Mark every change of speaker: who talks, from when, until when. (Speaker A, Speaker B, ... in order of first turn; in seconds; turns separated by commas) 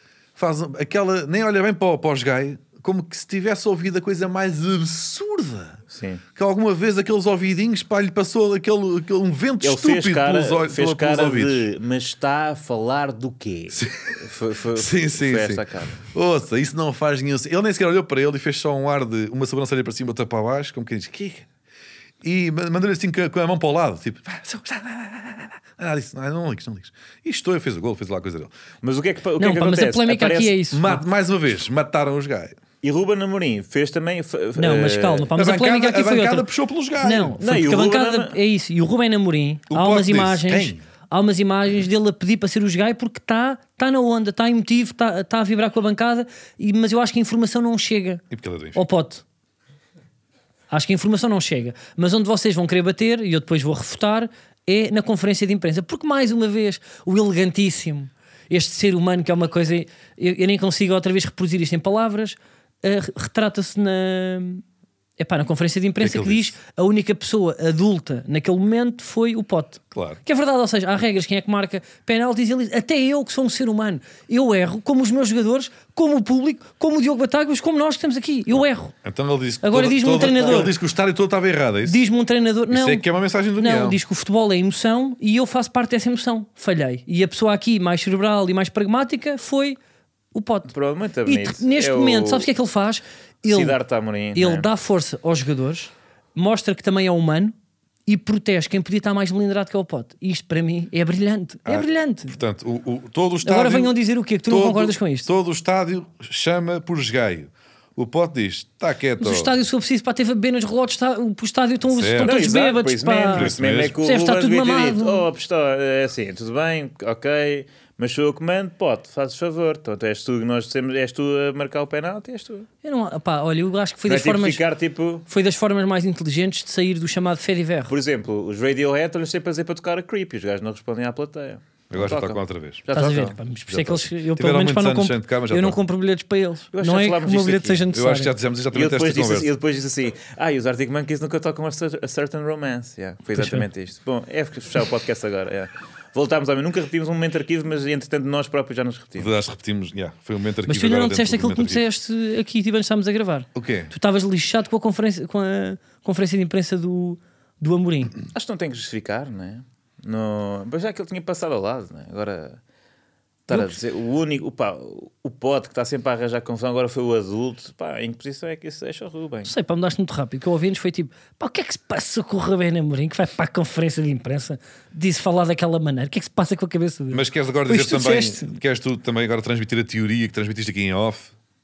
Speaker A: 0.4-5.8, Speaker B: 5.9-6.2, Speaker A: 6.4-11.7, Speaker B: 9.6-16.0, Speaker A: 13.7-14.2, Speaker A: 14.8-21.5, Speaker A: 22.2-28.5, Speaker B: 28.8-30.6, Speaker C: 29.4-31.0, Speaker A: 30.7-32.6, Speaker B: 32.8-35.3, Speaker C: 34.6-36.5, Speaker A: 35.4-37.4, Speaker C: 37.0-48.2, Speaker B: 37.4-38.4, Speaker A: 39.7-40.8, Speaker A: 48.3-48.8, Speaker C: 48.8-49.2, Speaker C: 50.7-64.6, Speaker C: 65.2-78.9, Speaker A: 66.0-66.5, Speaker A: 69.9-70.2, Speaker A: 79.0-82.0, Speaker C: 79.6-80.7, Speaker C: 81.8-83.0, Speaker A: 82.7-84.0, Speaker C: 83.6-89.8, Speaker C: 90.3-90.7, Speaker B: 90.7-92.5, Speaker C: 91.3-93.8, Speaker B: 93.5-94.7, Speaker C: 94.3-97.5, Speaker C: 98.1-102.4, Speaker A: 101.7-104.0, Speaker C: 103.4-105.3, Speaker A: 104.5-109.5, Speaker C: 109.2-115.3, Speaker A: 111.9-112.4, Speaker B: 112.2-122.7, Speaker A: 113.3-114.0, Speaker C: 122.8-124.6, Speaker B: 124.1-125.3, Speaker C: 125.3-127.9, Speaker B: 127.9-133.4, Speaker A: 131.9-132.9, Speaker C: 132.9-138.3, Speaker A: 133.7-135.8, Speaker B: 136.7-137.9, Speaker A: 137.9-139.5, Speaker B: 138.7-149.3, Speaker C: 143.3-143.7, Speaker A: 149.2-151.8, Speaker C: 150.7-158.1, Speaker A: 153.6-153.9, Speaker B: 158.3-162.6, Speaker B: 163.5-169.5, Speaker C: 163.5-163.8, Speaker C: 169.4-178.5, Speaker A: 177.1-181.3